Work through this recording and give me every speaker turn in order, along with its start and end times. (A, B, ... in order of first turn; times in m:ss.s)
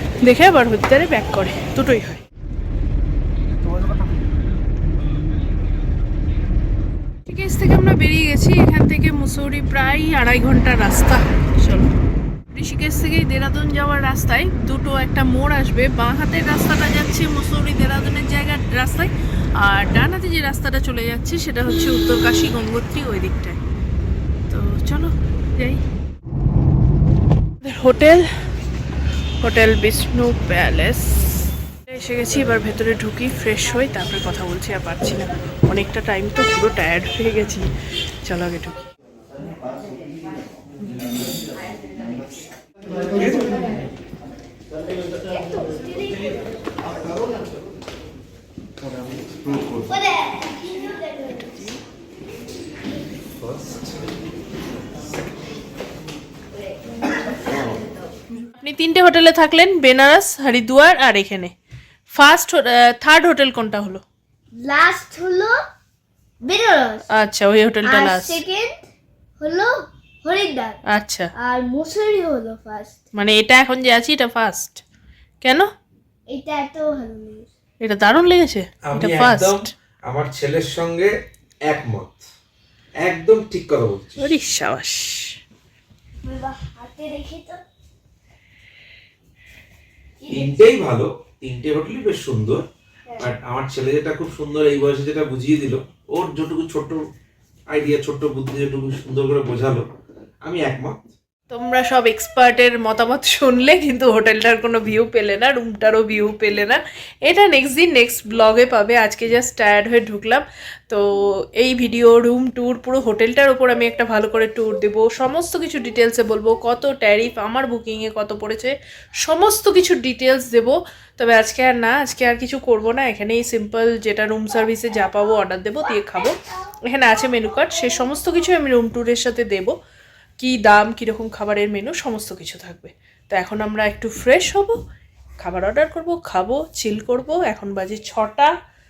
0:00.2-0:02.2 A
0:07.3-0:11.9 A
0:12.5-0:23.6 A
0:24.5-0:25.8 A
0:27.6-0:28.3 A
0:29.4-0:37.7 A
0:38.2-0:38.8 A
0:45.3-0:46.4 B
0:48.8-0:49.9 C
0:49.9-0:51.8 B
0:53.4-0:54.0 C
0:56.7-0:58.1 B
0:57.5-0:57.8 C
0:58.6-1:01.5 A
1:02.1-1:04.0 A
1:04.6-1:05.6 B
1:06.4-1:07.1 B
1:07.1-1:08.4 A
1:07.8-1:08.8 B
1:09.4-1:10.8 B
1:10.9-1:11.3 A
1:11.4-1:13.0 B
1:13.1-1:14.8 A
1:15.4-1:15.7 A
1:16.3-1:17.5 B
1:17.8-1:19.7 A
1:18.8-1:21.1 C
1:21.7-1:22.2 C
1:23.0-1:24.3 C
1:24.2-1:25.4 A
1:26.2-1:27.6 B
1:30.2-1:30.6 B
1:30.3-1:32.6 C
1:33.2-1:37.0 C
1:37.7-1:39.8 C
1:40.4-1:41.1 C
1:41.5-2:09.8 A
2:10.4-2:14.8 A
2:15.4-2:18.5 A